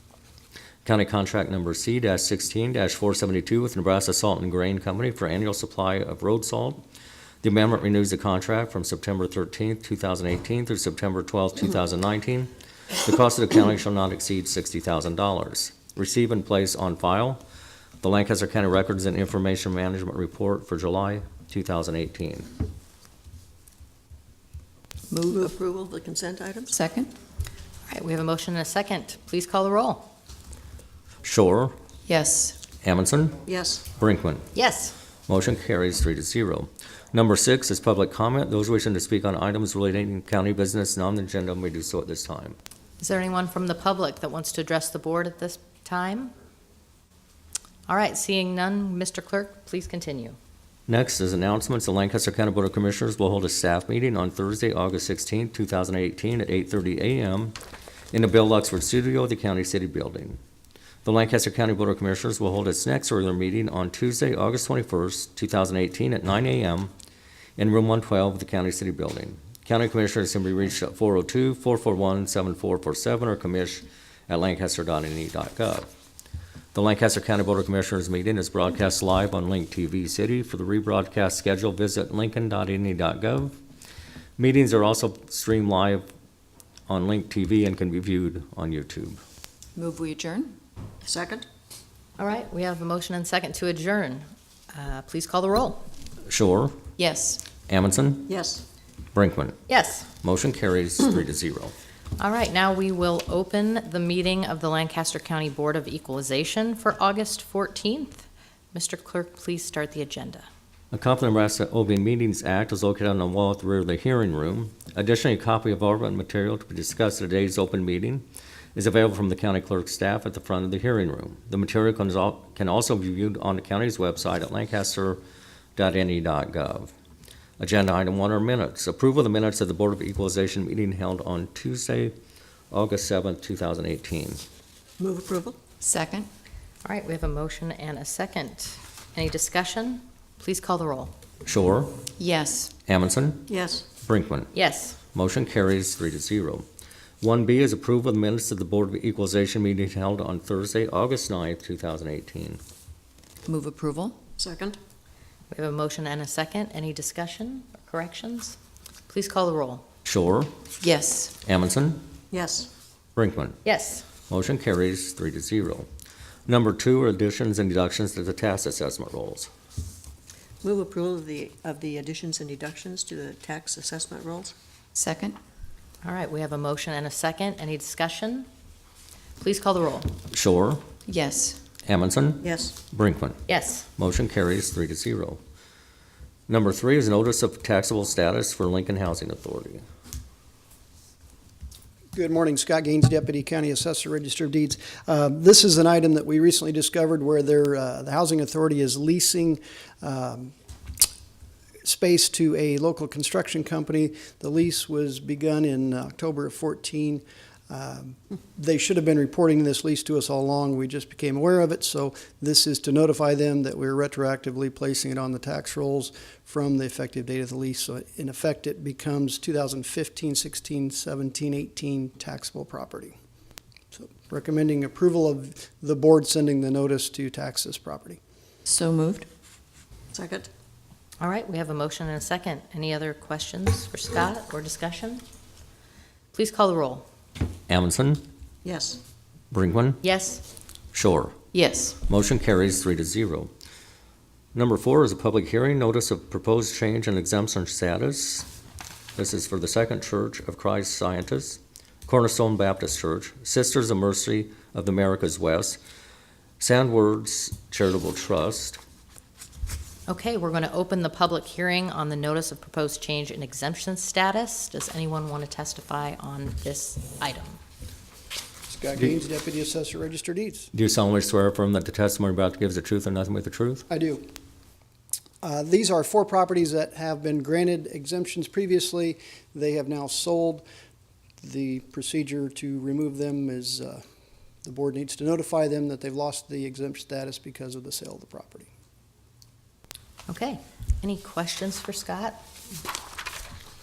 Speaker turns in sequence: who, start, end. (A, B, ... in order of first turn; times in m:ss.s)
0:00.8-0:06.8 A
0:07.4-0:17.4 A
0:18.0-0:22.5 A
0:25.1-0:25.5 B
0:25.3-0:26.8 C
0:26.7-0:27.1 B
0:27.9-0:30.0 D
0:31.2-0:31.8 A
0:32.0-0:32.6 B
0:32.8-0:34.4 A
0:33.4-0:33.8 C
0:34.5-0:35.0 D
0:35.3-0:42.6 A
0:43.0-0:46.3 D
0:47.9-0:50.4 D
0:50.9-0:57.6 A
0:58.1-1:00.4 A
1:01.0-1:06.9 A
1:07.6-1:15.9 A
1:16.7-1:23.6 A
1:24.4-1:26.0 A
1:26.9-1:29.2 A
1:29.8-1:30.6 B
1:31.0-1:31.4 C
1:32.2-1:35.9 D
1:36.2-1:36.8 A
1:37.0-1:37.4 B
1:37.7-1:38.3 A
1:38.3-1:38.6 C
1:39.1-1:39.6 A
1:39.7-1:40.1 D
1:40.2-1:41.7 A
1:42.2-1:50.5 D
1:50.9-2:05.2 A
2:05.8-2:06.9 A
2:07.6-2:12.2 A
2:12.7-2:14.4 A
2:15.0-2:15.6 C
2:15.8-2:16.3 B
2:16.8-2:21.2 D
2:21.4-2:22.0 A
2:22.2-2:22.7 B
2:22.9-2:23.5 A
2:23.5-2:23.8 C
2:24.0-2:24.5 A
2:24.5-2:25.0 D
2:25.1-2:26.7 A
2:27.2-2:32.6 A
2:33.5-2:34.2 B
2:34.4-2:34.8 C
2:35.5-2:38.6 D
2:39.1-2:39.8 D
2:40.0-2:40.5 A
2:40.8-2:41.3 B
2:41.4-2:42.0 A
2:42.3-2:42.7 C
2:43.2-2:43.6 A
2:43.6-2:44.1 D
2:44.3-2:45.9 A
2:46.5-2:49.5 A
2:50.6-2:54.5 C
2:54.9-2:55.4 B
2:56.0-2:58.5 D
2:59.4-3:00.1 D
3:00.3-3:00.8 A
3:01.1-3:01.6 B
3:01.8-3:03.4 A
3:02.4-3:02.7 C
3:03.5-3:03.8 D
3:04.0-3:05.4 A
3:06.5-3:09.8 A
3:12.1-3:20.5 E
3:21.8-3:43.2 E
3:43.9-3:48.2 E
3:48.7-3:49.3 B
3:50.1-3:50.5 C
3:51.2-3:55.2 D
3:56.3-3:57.1 D
3:57.7-3:58.2 A
3:58.6-3:59.0 C
3:59.5-4:00.0 A
4:00.0-4:00.4 D
4:00.9-4:01.4 A
4:01.5-4:02.0 B
4:02.1-4:03.5 A
4:04.5-4:08.5 A
4:09.2-4:15.8 A
4:16.6-4:18.8 A
4:20.1-4:27.6 D
4:28.7-4:30.7 E
4:30.7-4:33.9 A
4:33.9-4:34.3 E
4:35.4-4:40.6 E
4:41.4-4:44.0 E
4:44.6-4:48.7 E
4:50.3-4:52.4 D